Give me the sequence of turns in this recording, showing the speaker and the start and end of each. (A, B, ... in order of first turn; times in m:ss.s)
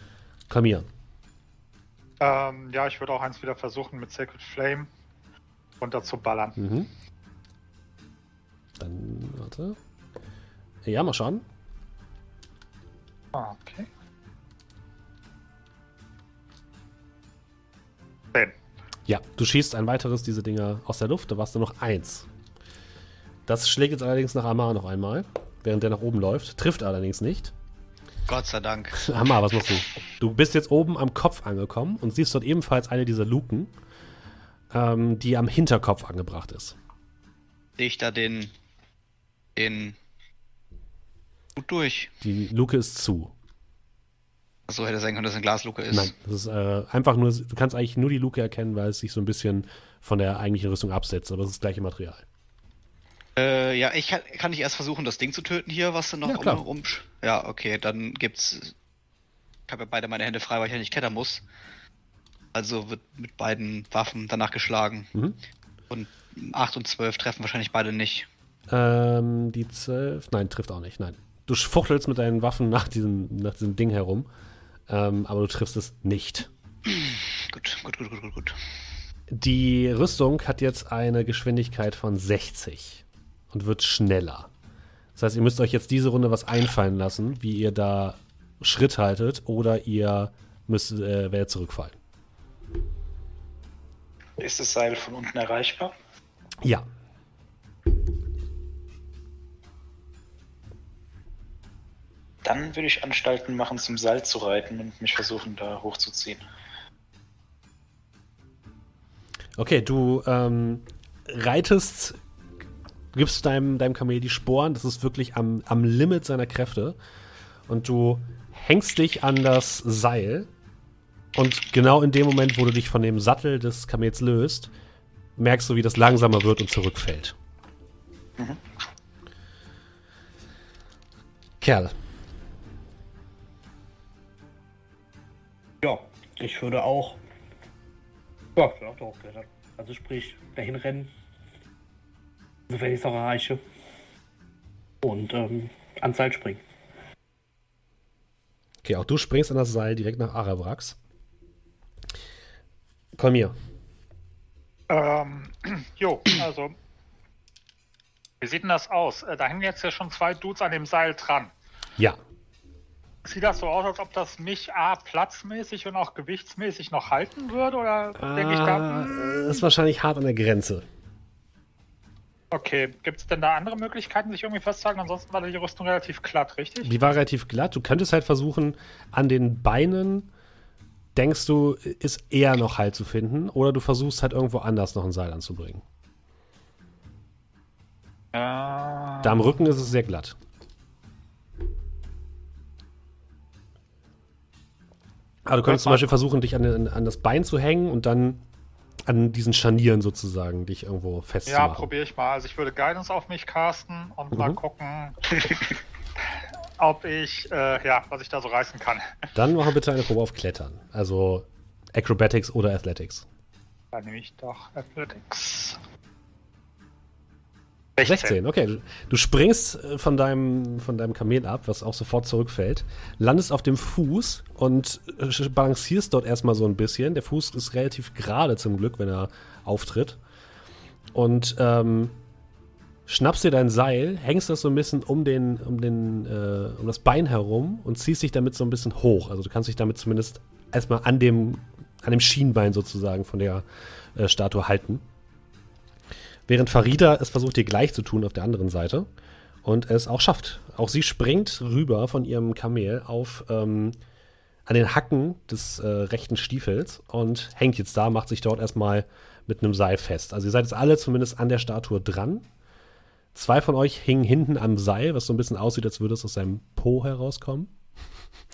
0:00.5-0:00.9 A
0:02.2-0:04.9 B
0:05.8-0:06.6 B
0:06.6-0:06.9 A
0:08.8-0:09.8 A
0:10.8-0:11.4 A
0:13.3-0:13.9 B
0:19.1-0:22.3 A
0:23.5-0:27.5 A
0:28.3-0:29.1 C
0:29.0-0:33.7 A
0:34.7-0:36.8 A
0:37.8-0:38.5 C
0:39.6-0:40.0 C
0:41.6-0:42.1 C
0:42.2-0:43.3 A
0:44.7-0:46.1 C
0:45.9-0:52.2 A
0:53.4-0:58.7 C
0:56.2-0:56.6 A
0:59.7-1:01.4 C
1:02.5-1:05.1 C
1:05.9-1:08.3 C
1:08.7-1:14.3 A
1:14.9-1:16.5 A
1:16.9-1:18.6 C
1:19.3-1:24.5 A
1:25.2-1:32.0 A
1:34.4-1:35.9 D
1:36.6-1:36.9 A
1:42.4-1:46.4 D
1:49.6-1:52.2 A
1:53.1-1:57.0 A
1:57.7-2:00.5 A
2:01.4-2:04.7 A
2:05.4-2:07.4 A
2:11.6-2:12.0 A
2:15.8-2:17.2 E
2:18.6-2:21.1 E
2:22.7-2:23.6 E
2:25.0-2:26.6 E
2:28.8-2:31.0 A
2:33.2-2:33.6 A
2:34.9-2:36.8 B
2:38.4-2:41.5 B
2:43.2-2:49.6 B
2:48.2-2:50.9 A
2:52.5-2:56.9 B
2:56.8-3:00.3 A
3:01.2-3:05.8 A
3:08.3-3:09.6 B
3:09.2-3:10.4 A
3:15.5-3:18.4 A
3:15.7-3:16.1 B
3:19.1-3:21.9 A
3:21.5-3:25.7 B
3:24.3-3:24.6 A
3:26.8-3:29.3 B
3:29.4-3:33.3 A
3:33.9-3:35.8 B
3:38.0-3:38.4 B
3:38.0-3:50.2 A
3:51.1-3:52.2 A
3:53.1-4:05.0 A
4:06.5-4:09.1 A
4:09.6-4:14.0 A
4:14.7-4:22.5 A
4:23.3-4:27.7 A